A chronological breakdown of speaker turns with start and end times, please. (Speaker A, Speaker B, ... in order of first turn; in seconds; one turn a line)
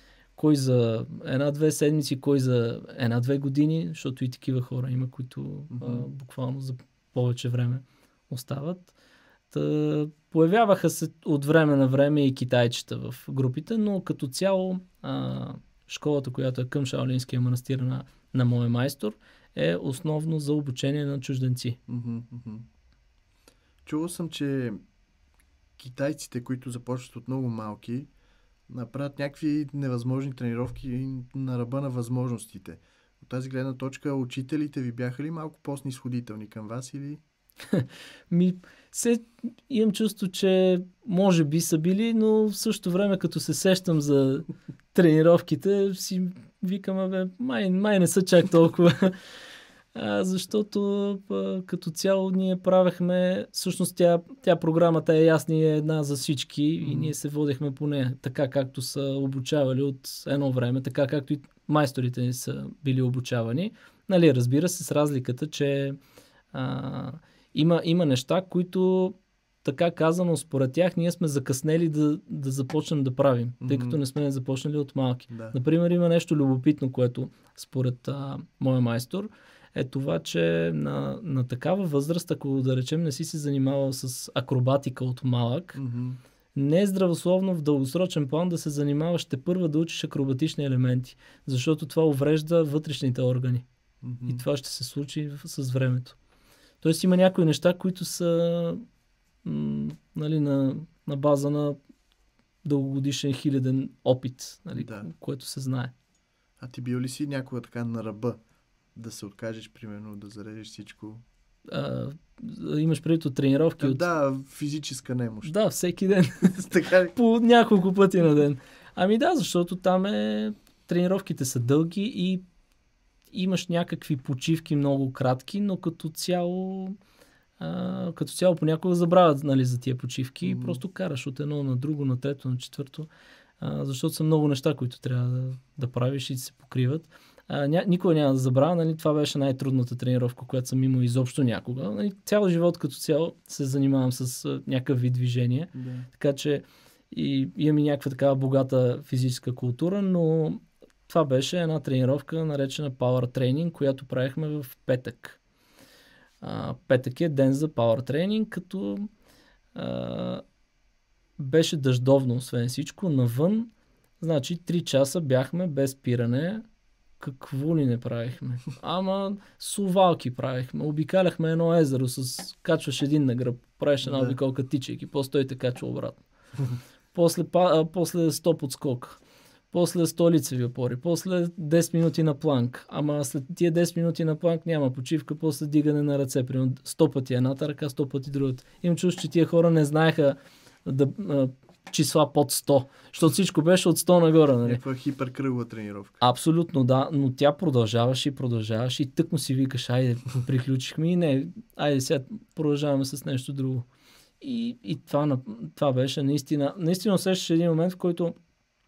Speaker A: 0.4-8.9
Speaker B: 5.7-6.1
Speaker A: 9.5-21.8
Speaker B: 21.9-22.7
Speaker B: 23.9-24.8
Speaker B: 25.8-28.1
Speaker B: 28.7-37.2
Speaker A: 37.7-49.2
Speaker A: 49.9-66.0
Speaker B: 56.8-57.1
Speaker A: 66.5-85.8
Speaker B: 73.6-74.0
Speaker B: 75.3-75.6
Speaker B: 85.7-86.2
Speaker A: 86.5-93.7
Speaker B: 94.0-94.4
Speaker A: 94.2-96.2
Speaker A: 96.8-98.8
Speaker A: 99.4-101.8
Speaker A: 102.6-105.9
Speaker B: 104.8-105.1
Speaker B: 106.6-108.4
Speaker B: 108.9-111.2
Speaker A: 111.7-114.0
Speaker B: 113.8-115.5
Speaker A: 115.4-122.4
Speaker B: 116.5-117.1
Speaker A: 123.3-127.0
Speaker A: 127.6-133.1
Speaker B: 130.4-130.8
Speaker A: 133.6-155.4
Speaker B: 145.7-146.1
Speaker A: 156.4-159.1
Speaker A: 159.7-160.4
Speaker A: 161.4-163.7
Speaker A: 164.2-166.6
Speaker A: 167.2-176.2
Speaker B: 174.0-174.4
Speaker A: 177.1-179.2
Speaker A: 179.7-194.8
Speaker B: 194.6-196.2
Speaker A: 196.2-203.9
Speaker A: 204.4-208.4